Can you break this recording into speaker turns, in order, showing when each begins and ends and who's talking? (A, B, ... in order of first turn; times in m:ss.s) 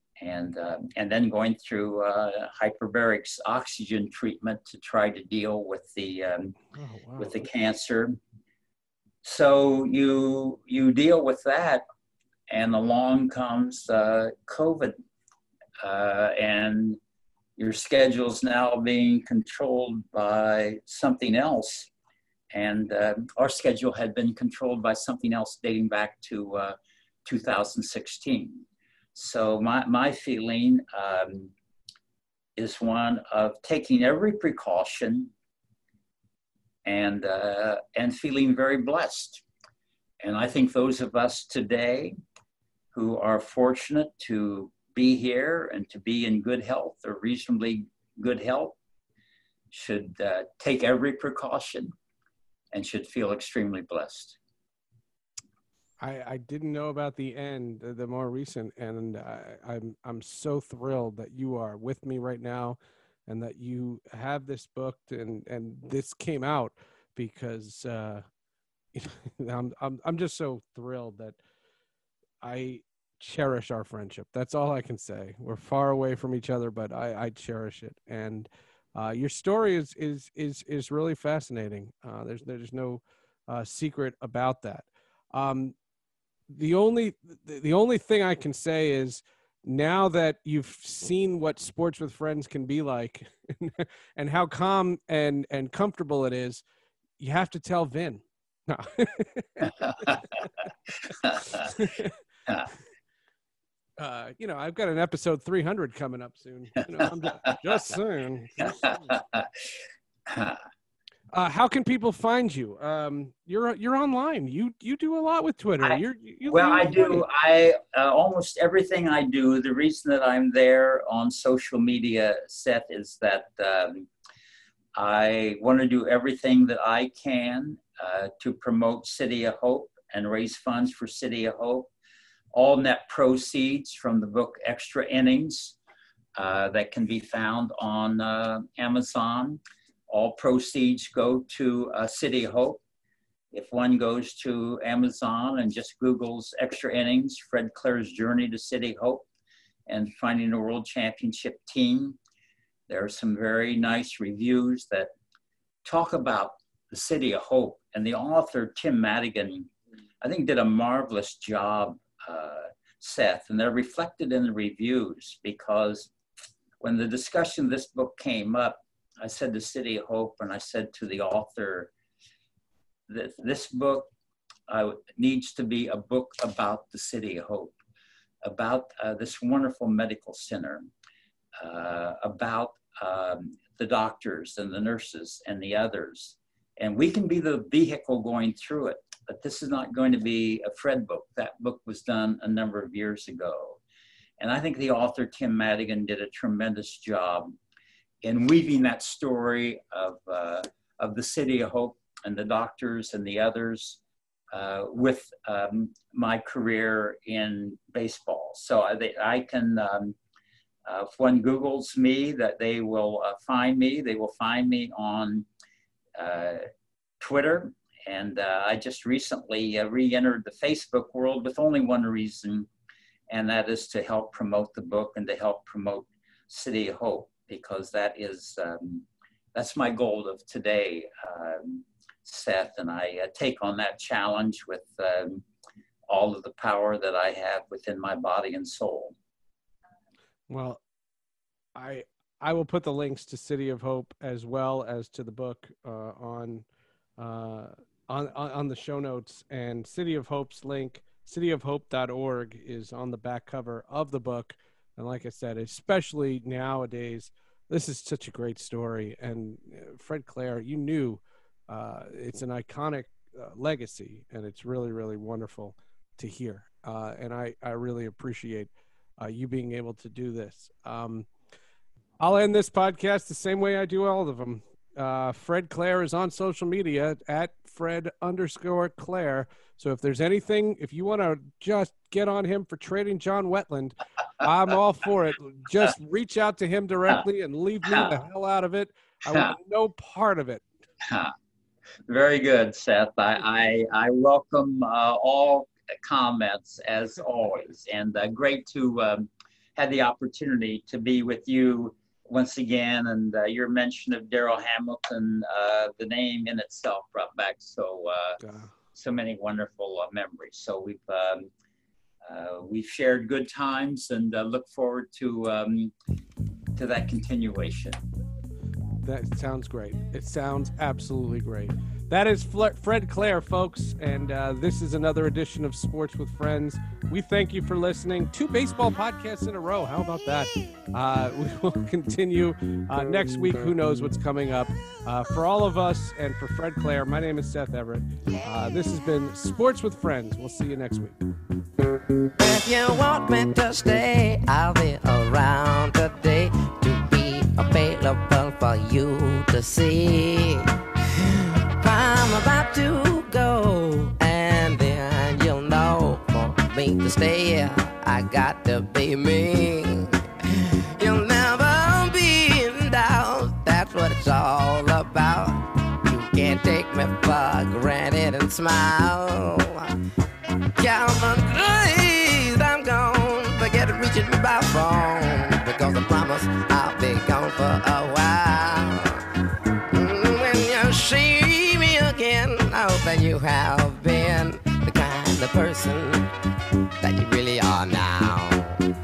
0:00.2-0:06.6 A
0:06.7-0:07.4 B
0:07.2-0:08.2 A
0:09.2-0:11.8 A
0:12.5-0:15.0 A
0:15.8-0:17.0 A
0:17.6-0:21.9 A
0:22.5-0:31.5 A
0:32.6-0:35.3 A
0:36.8-0:39.4 A
0:40.2-0:42.1 A
0:42.9-0:48.8 A
0:49.7-0:51.9 A
0:52.7-0:54.4 A
0:56.0-1:08.2 B
1:08.9-1:11.4 B
1:12.4-1:25.7 B
1:26.5-1:36.6 B
1:37.2-1:40.5 B
1:39.8-1:40.1 A
1:41.2-1:41.6 A
1:41.4-1:42.1 B
1:44.0-1:49.0 B
1:48.6-1:49.6 A
1:50.3-1:50.6 A
1:51.3-1:57.2 B
1:55.8-2:04.1 A
2:05.0-2:11.9 A
2:12.5-2:15.8 A
2:16.4-2:22.8 A
2:23.5-2:29.3 A
2:29.9-2:32.2 A
2:32.9-2:35.1 A
2:35.8-2:39.7 A
2:40.2-2:46.1 A
2:46.8-2:51.9 A
2:53.1-2:54.1 A
2:54.7-2:57.8 A
2:58.4-3:00.8 A
3:01.6-3:13.8 A
3:14.4-3:17.6 A
3:18.2-3:24.0 A
3:24.5-3:30.2 A
3:30.8-3:35.5 A
3:36.2-3:36.6 A
3:37.2-3:42.7 A
3:43.3-3:55.4 A
3:56.1-3:59.1 A
4:00.5-4:00.8 B
4:01.7-4:06.6 B
4:07.2-4:31.3 B
4:32.2-4:50.6 B
4:47.8-4:48.1 A
4:51.0-4:51.3 A
4:52.0-5:08.4 A
5:08.4-5:08.7 B
5:08.9-5:11.5 A
5:12.2-5:15.9 A
5:16.8-5:18.0 A
5:19.0-5:41.2 B
5:42.3-6:09.9 C
6:10.8-6:19.2 C
6:19.9-6:26.2 C
6:27.0-6:28.9 C